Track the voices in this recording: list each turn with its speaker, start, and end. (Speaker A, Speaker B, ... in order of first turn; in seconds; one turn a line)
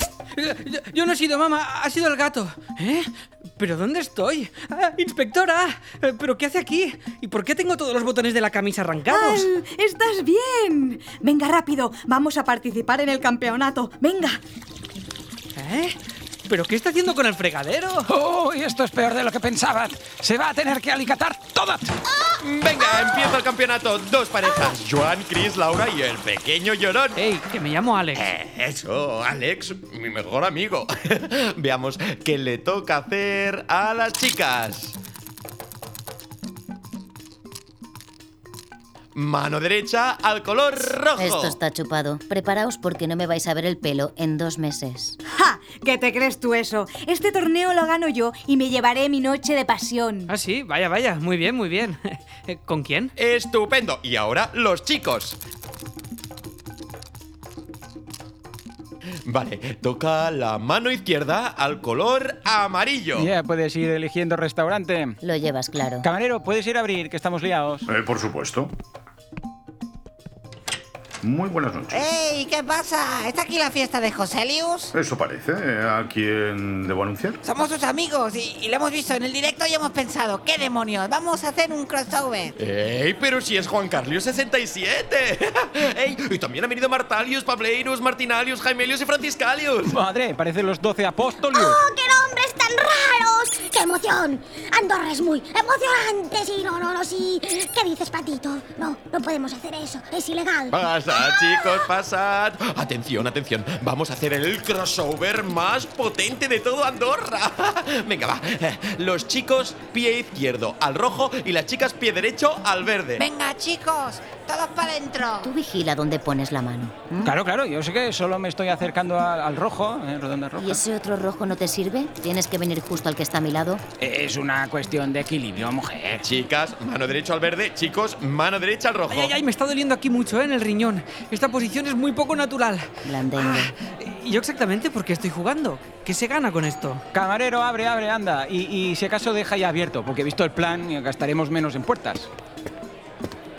Speaker A: 0.3-9.5
Speaker B: 9.1-14.4
Speaker A: 15.6-18.1
Speaker C: 18.1-22.0
Speaker D: 22.4-27.2
Speaker A: 27.1-28.2
Speaker D: 28.2-35.0
Speaker D: 39.1-41.5
Speaker E: 41.2-45.2
Speaker B: 45.3-50.3
Speaker A: 50.3-53.1
Speaker D: 53.2-55.4
Speaker D: 59.2-63.3
Speaker C: 63.1-65.2
Speaker E: 65.2-66.1
Speaker C: 66.0-67.9
Speaker F: 67.9-68.7
Speaker F: 71.2-72.1
Speaker G: 71.9-74.9
Speaker F: 74.9-77.4
Speaker G: 77.4-82.5
Speaker D: 82.6-90.0
Speaker C: 89.9-91.8
Speaker H: 91.5-101.7
Speaker D: 100.7-113.2
Speaker G: 113.2-115.5
Speaker E: 115.4-117.3
Speaker C: 117.2-120.8
Speaker E: 120.6-123.8
Speaker C: 124.0-126.3
Speaker D: 126.2-129.3
Speaker A: 129.1-137.0
Speaker E: 133.0-133.7
Speaker C: 137.1-142.3